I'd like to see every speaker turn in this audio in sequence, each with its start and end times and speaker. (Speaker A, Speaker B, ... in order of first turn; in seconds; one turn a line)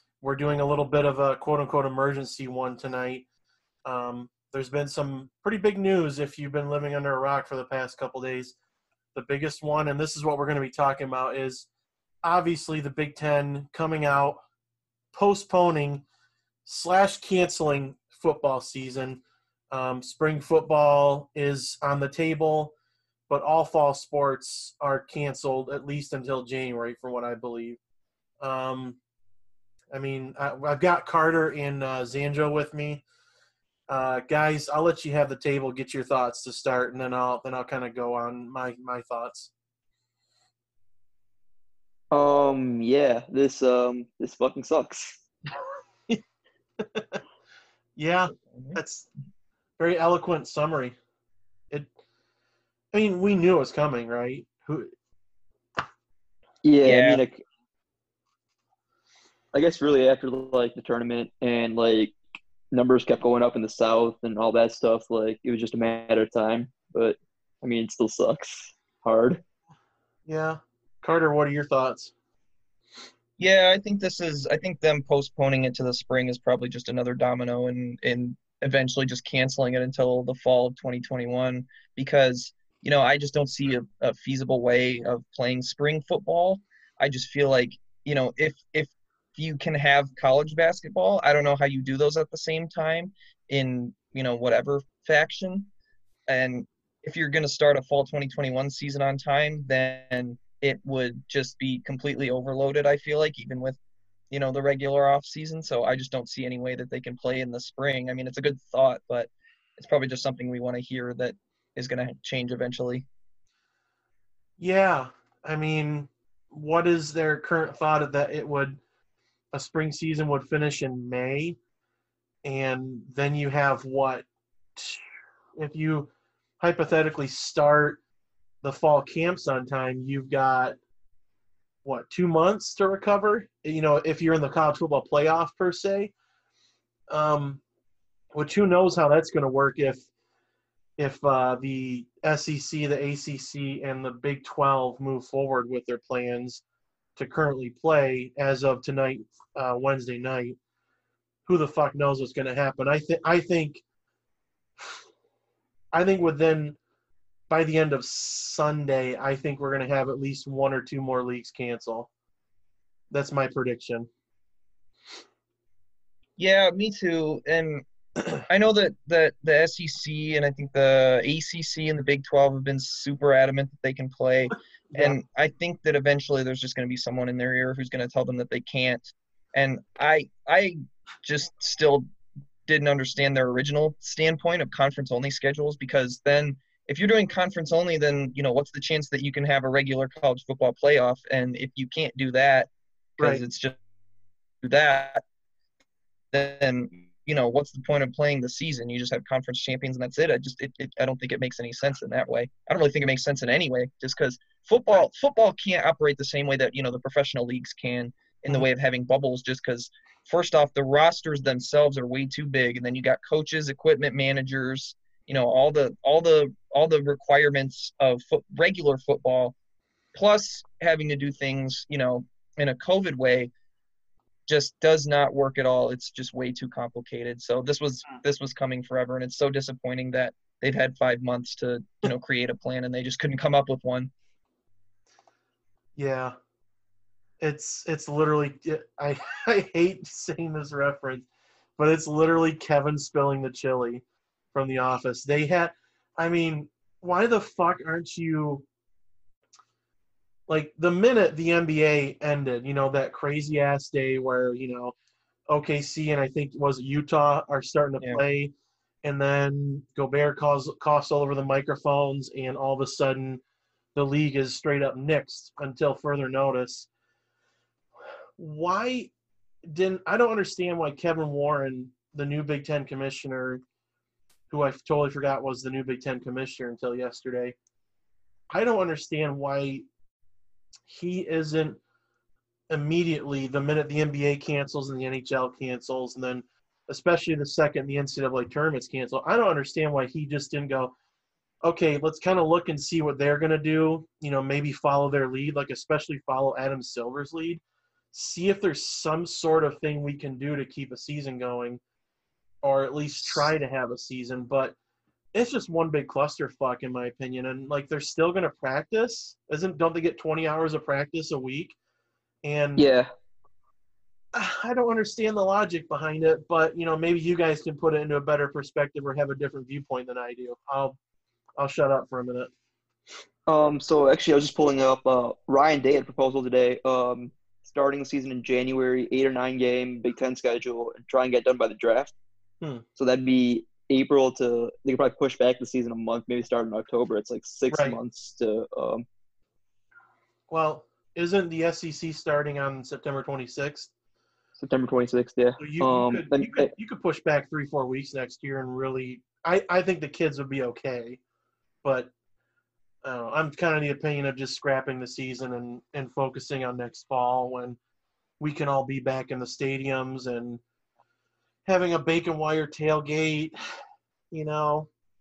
Speaker A: 0.2-3.2
Speaker A: 3.9-8.6
Speaker A: 9.1-11.7
Speaker A: 12.2-14.4
Speaker A: 15.1-16.1
Speaker A: 16.6-22.7
Speaker A: 23.3-27.8
Speaker A: 28.4-29.0
Speaker A: 29.9-33.0
Speaker A: 33.9-39.5
Speaker B: 42.1-45.2
Speaker A: 46.8-47.2
Speaker A: 48.0-49.1
Speaker A: 49.8-51.0
Speaker A: 52.9-54.9
Speaker B: 56.6-57.4
Speaker C: 56.8-57.2
Speaker B: 59.5-62.1
Speaker B: 62.7-69.4
Speaker A: 70.3-72.1
Speaker C: 73.4-95.7
Speaker C: 96.3-103.8
Speaker C: 104.3-113.0
Speaker A: 114.6-118.8
Speaker A: 119.5-121.6
Speaker A: 122.5-124.2
Speaker A: 124.8-125.0
Speaker A: 125.6-128.0
Speaker A: 128.6-130.8
Speaker A: 131.8-136.1
Speaker A: 137.1-137.6
Speaker A: 138.3-140.1
Speaker A: 141.0-146.6
Speaker A: 147.2-150.6
Speaker A: 151.5-153.8
Speaker A: 155.9-156.8
Speaker A: 157.5-162.1
Speaker A: 163.1-164.1
Speaker C: 166.4-167.8
Speaker C: 168.5-182.1
Speaker C: 182.7-193.8
Speaker C: 194.6-195.2
Speaker C: 196.3-219.5
Speaker C: 220.2-223.5
Speaker C: 224.5-234.1
Speaker A: 236.0-236.3
Speaker A: 237.4-241.3
Speaker A: 241.8-248.7
Speaker A: 250.5-254.9
Speaker A: 255.5-263.4
Speaker A: 263.9-266.9
Speaker A: 268.4-269.1
Speaker A: 269.7-273.6
Speaker A: 274.5-277.6
Speaker A: 278.5-279.9
Speaker A: 280.9-281.8
Speaker A: 282.7-290.9
Speaker A: 291.6-301.8
Speaker A: 302.6-304.8
Speaker A: 305.3-311.8
Speaker A: 312.4-312.9
Speaker B: 312.8-313.1
Speaker A: 314.3-321.0
Speaker A: 321.6-322.5
Speaker B: 323.5-332.1
Speaker B: 333.0-339.1
Speaker A: 337.7-338.0
Speaker A: 340.5-343.9
Speaker B: 344.6-346.7
Speaker A: 345.6-351.2
Speaker A: 351.8-352.1
Speaker A: 353.0-357.8
Speaker A: 358.4-360.6
Speaker A: 361.7-363.6
Speaker A: 364.3-364.9